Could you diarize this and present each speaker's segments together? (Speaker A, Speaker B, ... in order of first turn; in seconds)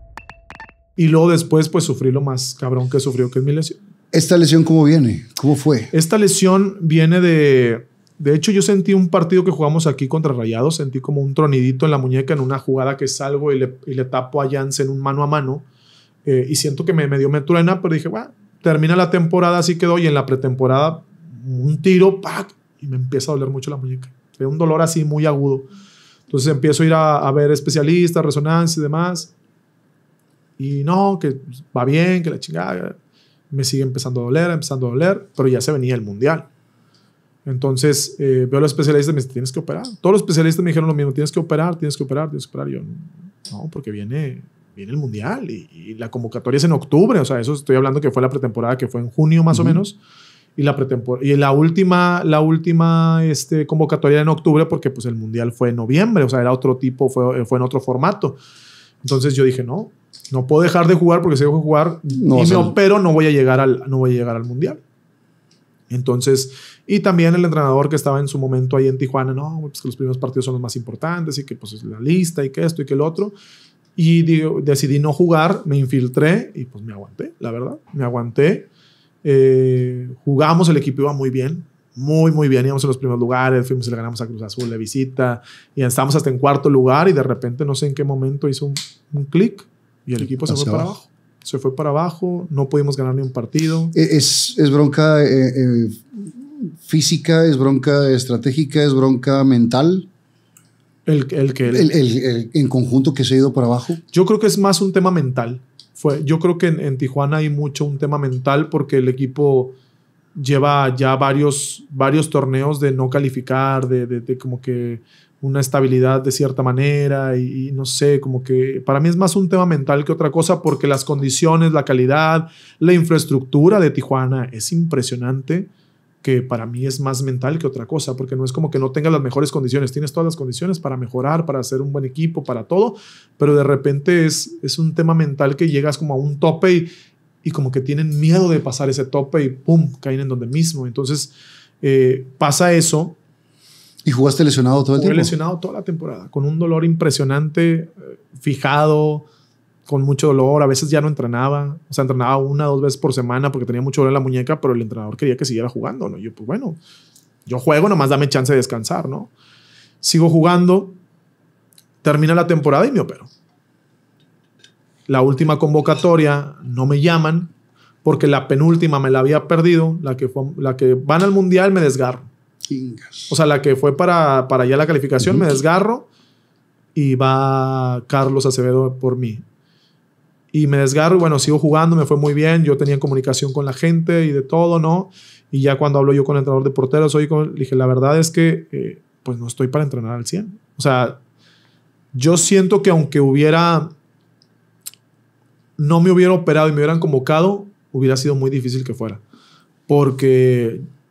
Speaker A: 1.0-3.8, 5.9-15.7, 16.2-25.7, 26.3-29.3, 30.6-33.0, 33.5-36.5, 37.5-50.0, 50.6-58.4, 59.0-64.8, 65.9-73.3, 74.0-78.7, 79.2-93.9, 101.1-101.9, 104.1-109.8, 110.3-125.7, 126.2-136.9, 137.4-143.2, 145.0-149.3, 149.9-156.8, 157.5-159.3, 160.0-161.0, 162.0-163.3, 165.1-167.5, 168.0-172.3, 173.3-176.1, 176.9-179.4, 180.5-191.2, 192.1-193.9, 195.8-199.2, 199.9-200.8
Speaker B: 4.1-5.9, 49.5-49.8, 62.1-62.8, 90.3-90.9, 93.9-100.1, 101.7-104.0, 144.1-145.3, 172.7-173.3, 175.2-175.5